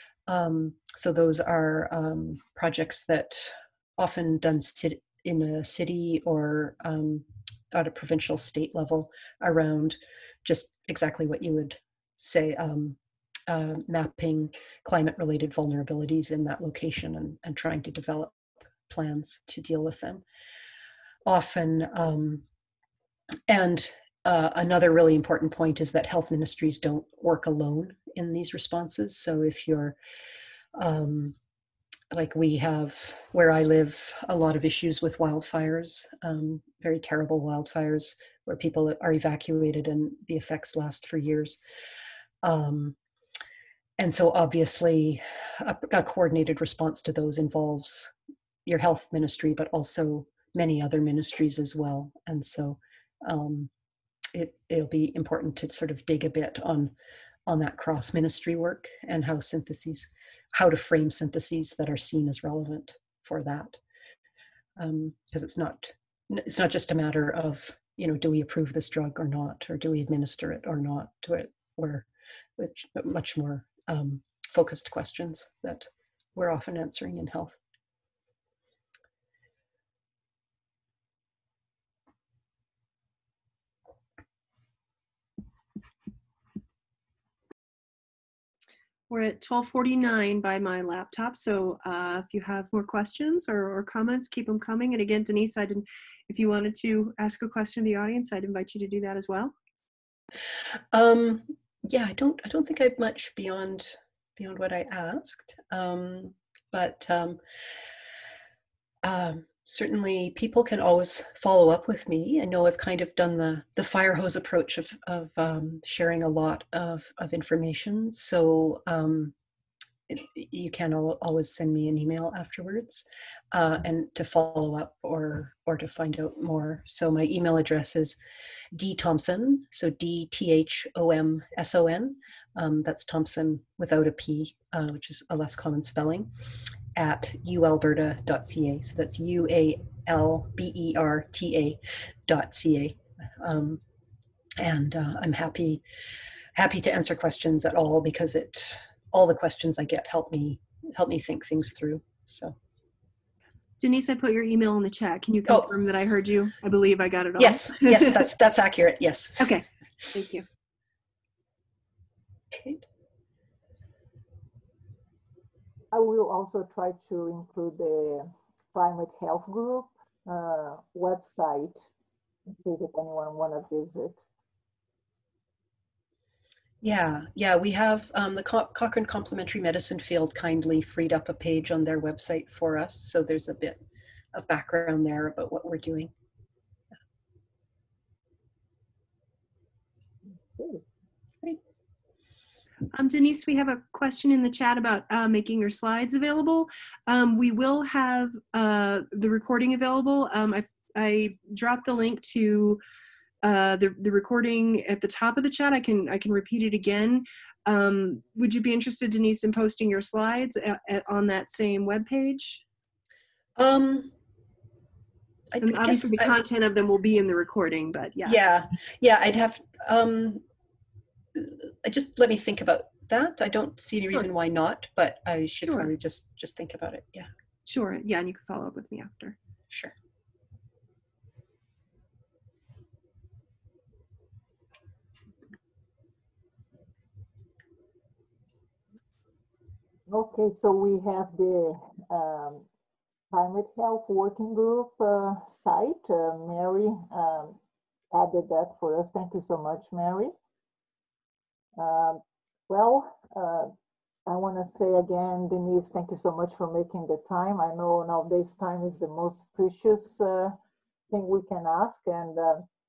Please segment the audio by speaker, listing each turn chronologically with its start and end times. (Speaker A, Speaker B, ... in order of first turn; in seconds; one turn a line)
Speaker A: 0.3-20.2
Speaker A: 21.2-22.4
Speaker A: 23.5-30.0
Speaker A: 30.8-31.4
Speaker A: 32.1-41.6
Speaker A: 42.4-43.0
Speaker A: 44.0-48.1
Speaker A: 48.6-53.7
Speaker A: 54.3-56.9
Speaker A: 57.5-63.8
Speaker A: 64.8-77.6
Speaker B: 89.1-99.5
Speaker A: 100.9-107.4
Speaker A: 109.0-119.3
Speaker A: 120.1-128.2
Speaker A: 128.7-136.3
Speaker A: 136.9-143.8
Speaker A: 144.6-145.8
Speaker A: 146.5-152.6
Speaker B: 153.8-158.2
Speaker A: 157.4-160.1
Speaker B: 159.4-160.4
Speaker A: 162.6-162.8
Speaker C: 165.9-171.9
Speaker C: 172.6-174.2
Speaker A: 176.8-186.1
Speaker C: 190.6-190.8
Speaker B: 192.9-202.8
Speaker B: 203.4-212.6
Speaker A: 213.6-214.1
Speaker A: 215.5-216.4
Speaker B: 215.6-218.4
Speaker A: 218.2-220.4
Speaker A: 221.3-227.3
Speaker B: 227.7-229.3
Speaker C: 240.1-242.7
Speaker C: 243.3-247.6
Speaker C: 248.1-250.3
Speaker C: 251.8-253.7
Speaker C: 254.2-260.6
Speaker C: 261.1-262.6